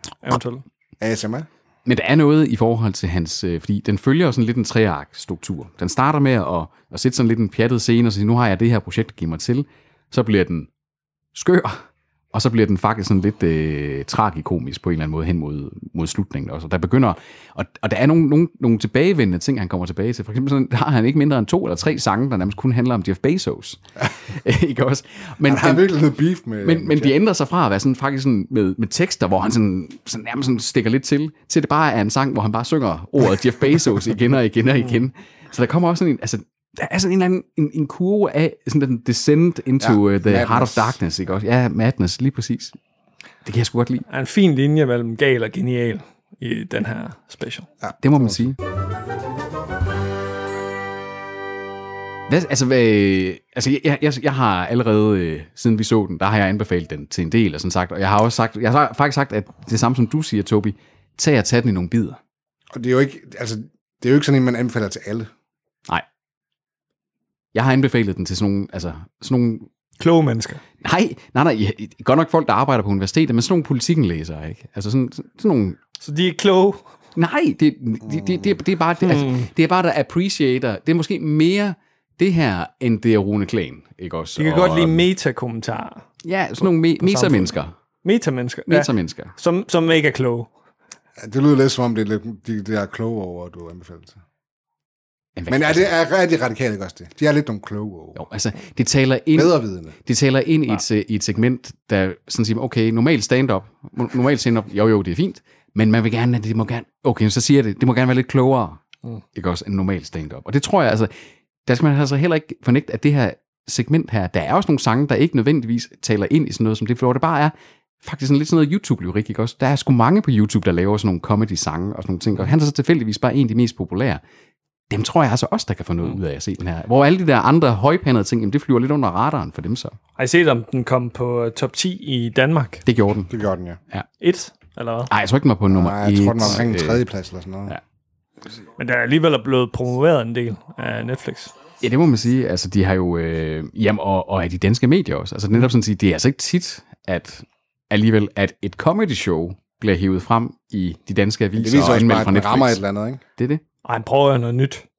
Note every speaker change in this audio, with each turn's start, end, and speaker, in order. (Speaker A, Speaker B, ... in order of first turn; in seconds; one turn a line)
Speaker A: 0.2-0.6
Speaker B: 1.0-1.5
Speaker C: 1.9-10.7
Speaker C: 11.3-25.9
Speaker B: 25.4-27.2
Speaker C: 26.6-42.8
Speaker B: 39.8-41.0
Speaker C: 43.4-44.0
Speaker A: 44.1-47.7
Speaker B: 47.8-48.4
Speaker C: 48.0-48.6
Speaker C: 52.3-62.2
Speaker B: 62.7-65.3
Speaker C: 67.5-69.7
Speaker A: 70.0-70.6
Speaker C: 70.8-75.8
Speaker A: 76.0-76.8
Speaker C: 77.2-85.1
Speaker B: 78.0-78.6
Speaker A: 79.0-79.5
Speaker A: 84.4-86.0
Speaker C: 86.2-87.7
Speaker A: 87.0-90.5
Speaker C: 88.7-89.3
Speaker B: 91.2-94.2
Speaker C: 95.4-95.9
Speaker B: 95.5-98.2
Speaker C: 98.1-108.8
Speaker B: 99.3-99.9
Speaker C: 109.3-111.1
Speaker C: 111.7-124.2
Speaker C: 124.9-130.0
Speaker A: 130.2-132.8
Speaker C: 132.8-133.3
Speaker B: 133.3-133.8
Speaker A: 134.2-135.1
Speaker C: 135.1-137.0
Speaker B: 135.7-137.8
Speaker A: 138.8-141.5
Speaker C: 141.8-152.8
Speaker B: 151.6-153.2
Speaker C: 153.4-153.6
Speaker A: 153.8-154.8